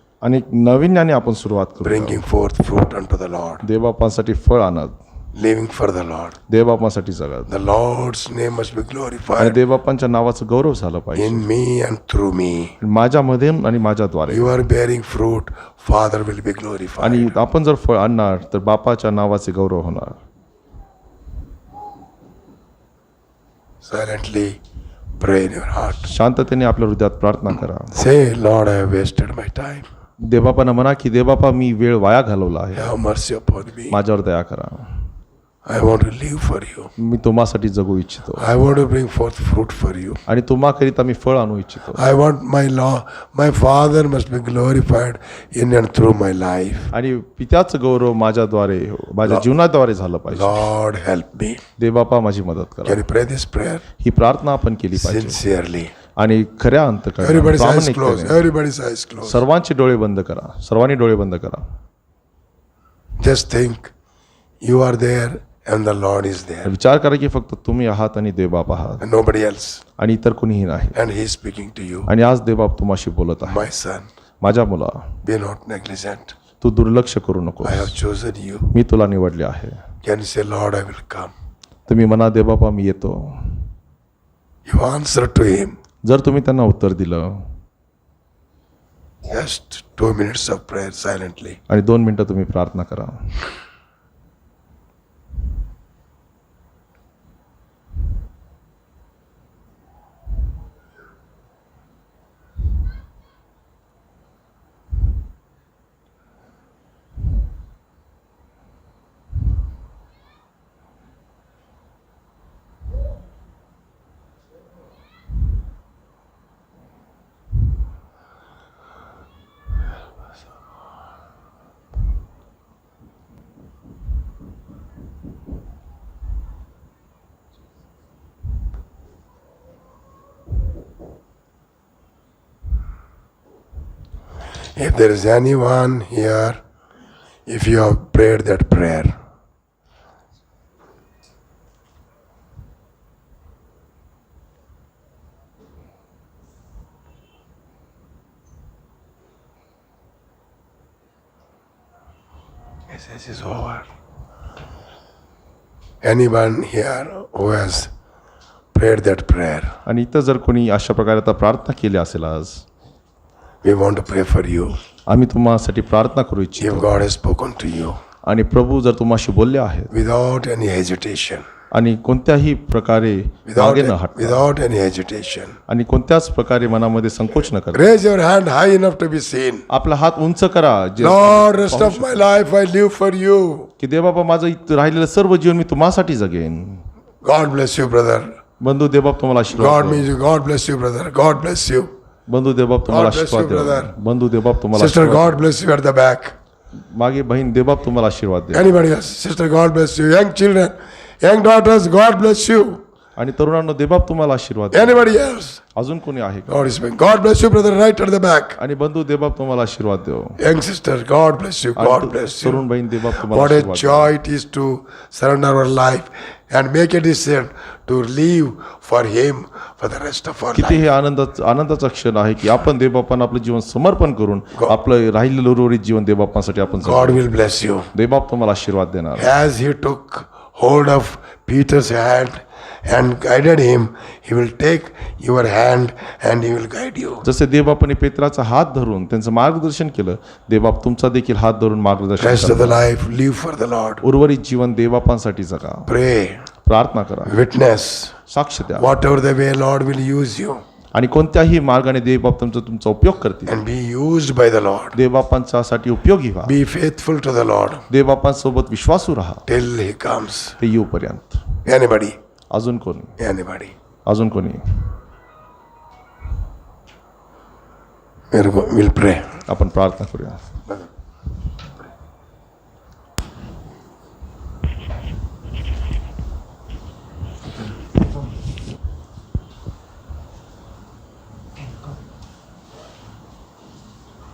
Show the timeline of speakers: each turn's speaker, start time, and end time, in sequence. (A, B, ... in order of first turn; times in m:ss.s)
0:00.2-0:02.2 A
0:01.8-0:03.6 B
0:03.6-0:05.0 A
0:05.4-0:06.4 B
0:06.5-0:07.5 A
0:07.5-0:09.6 B
0:09.4-0:11.5 A
0:11.2-0:12.8 B
0:12.8-0:14.5 A
0:14.3-0:17.3 B
0:17.0-0:20.2 A
0:23.8-0:24.6 B
0:25.2-0:26.1 B
0:26.0-0:27.9 A
0:27.9-0:29.9 B
0:30.2-0:33.0 A
0:32.8-0:34.0 B
0:33.9-0:34.9 A
0:35.6-0:36.9 B
0:37.0-0:38.5 A
0:38.4-0:40.2 B
0:40.3-0:42.0 A
0:41.9-0:46.9 B
0:46.9-0:50.6 A
0:50.3-0:51.6 B
0:51.8-0:53.1 A
0:52.9-0:53.8 B
0:54.0-0:55.4 A
0:54.9-0:55.9 B
0:56.2-0:58.4 A
0:57.2-0:59.4 B
0:59.2-1:01.6 A
1:03.2-1:03.9 B
1:04.6-1:06.7 B
1:06.6-1:09.0 A
1:09.0-1:09.8 B
1:10.0-1:11.0 A
1:11.0-1:12.1 B
1:12.1-1:13.7 A
1:13.5-1:14.1 B
1:14.4-1:15.0 A
1:15.2-1:16.4 B
1:16.6-1:17.9 A
1:17.6-1:18.7 B
1:18.7-1:19.8 A
1:20.0-1:21.3 B
1:21.9-1:23.6 A
1:24.7-1:25.8 B
1:26.0-1:27.4 A
1:29.3-1:31.6 B
1:31.7-1:33.2 A
2:14.8-2:16.6 B
2:17.5-2:19.2 B
2:32.9-2:33.9 B
2:36.0-2:37.9 B
2:38.7-2:39.8 B
2:39.9-2:42.6 A
2:43.6-2:44.8 B
2:45.1-2:47.0 A
2:46.6-2:48.0 B
2:48.2-2:49.9 A
2:49.9-2:51.5 B
2:51.7-2:54.4 A
2:53.5-2:55.6 B
2:55.7-2:57.9 A
2:57.7-2:59.7 B
2:59.7-3:02.3 A
3:01.0-3:03.7 B
3:03.8-3:06.8 A
3:07.2-3:08.3 B
3:08.6-3:10.1 A
3:09.5-3:11.9 B
3:12.3-3:15.4 A
3:12.9-3:13.9 B
3:14.8-3:16.3 B
3:17.0-3:18.7 A
3:18.5-3:22.8 B
3:23.2-3:25.2 A
3:24.7-3:25.6 B
3:25.8-3:26.7 A
3:26.5-3:28.6 B
3:28.6-3:30.4 A
3:30.4-3:32.6 B
3:31.8-3:34.1 A
3:33.2-3:40.8 B
3:40.6-3:47.2 A
3:46.8-3:47.9 B
3:47.9-3:49.3 A
3:49.2-3:57.3 B
3:57.2-4:02.9 A
4:02.2-4:04.0 B
4:04.0-4:05.9 A
4:05.9-4:06.5 B
4:06.7-4:07.4 A
4:07.3-4:08.2 B
4:08.3-4:08.9 A
4:08.8-4:10.6 B
4:11.0-4:13.6 A
4:13.5-4:15.0 B
4:15.0-4:16.6 A
4:16.5-4:17.9 B
4:17.9-4:19.4 A
4:19.5-4:20.6 B
4:20.6-4:21.4 A
4:21.6-4:22.2 B
4:22.5-4:23.2 A
4:23.2-4:23.7 B
4:24.1-4:24.8 A
4:28.3-4:29.4 B
4:29.5-4:30.4 A